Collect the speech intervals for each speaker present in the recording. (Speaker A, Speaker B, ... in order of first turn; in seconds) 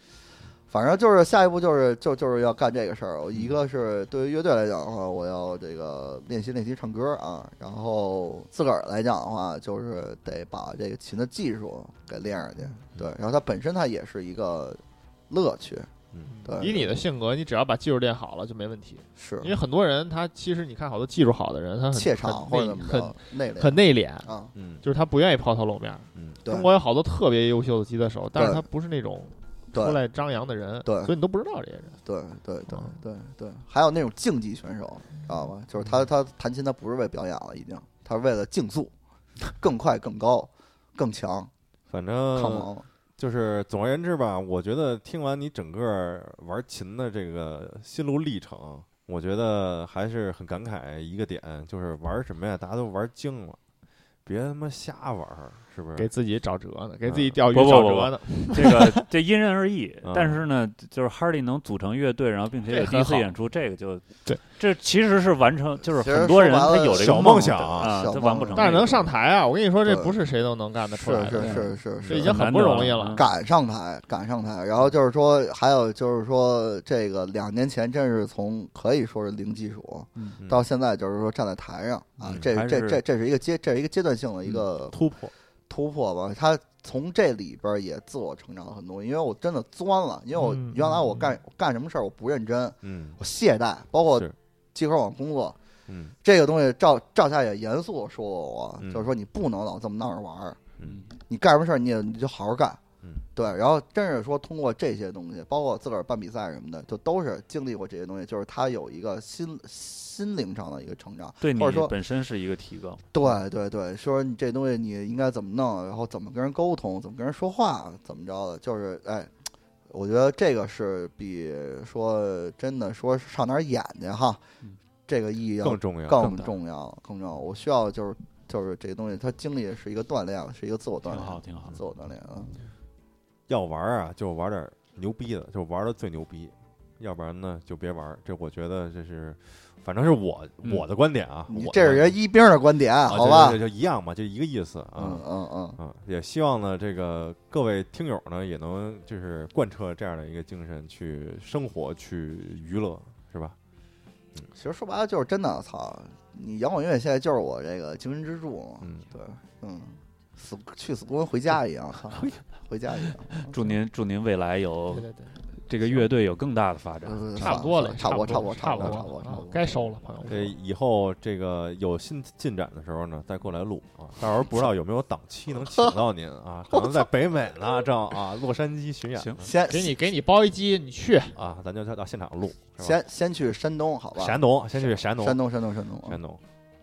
Speaker A: 0.7-15.9, 16.4-16.9, 19.2-19.5, 21.9-24.5, 26.4-26.7, 28.4-28.6, 29.7-30.0, 30.8-31.1, 32.0-38.9, 39.5-41.5, 42.3-42.9, 66.0-68.8, 69.8-70.1, 70.9-85.0, 85.7-95.6, 96.2-100.6, 101.2-102.8, 103.3-111.9, 113.1-119.3, 119.9-124.4, 125.1-132.5, 141.5-143.6, 145.0-145.8, 154.5-163.5, 167.0-169.7, 176.7-177.1, 179.4-180.0, 182.8-186.2
Speaker B: 16.2-24.3, 24.8-32.0, 32.7-33.0, 56.0-59.0, 62.7-63.3, 68.5-73.2, 90.4-91.1, 164.9-165.3, 167.4-170.5, 179.7-181.4
Speaker C: 24.5-24.8, 26.1-26.4, 41.9-53.6, 54.2-56.1, 57.0-57.4, 60.0-60.4, 66.9-68.0, 80.4-80.6, 84.5-85.3, 92.8-93.2, 95.9-96.1, 98.8-99.1, 125.6-126.3, 133.5-142.2, 143.1-145.2, 145.8-153.6, 158.8-159.1, 162.1-162.4, 170.2-179.5, 181.3-183.0, 184.2-185.4, 186.0-186.4
Speaker D: 57.5-69.0, 71.3-73.2, 82.2-83.0, 90.9-91.2, 100.8-101.1, 111.4-113.2, 126.2-126.5, 131.0-131.8, 163.4-165.1, 165.7-168.6, 179.1-179.5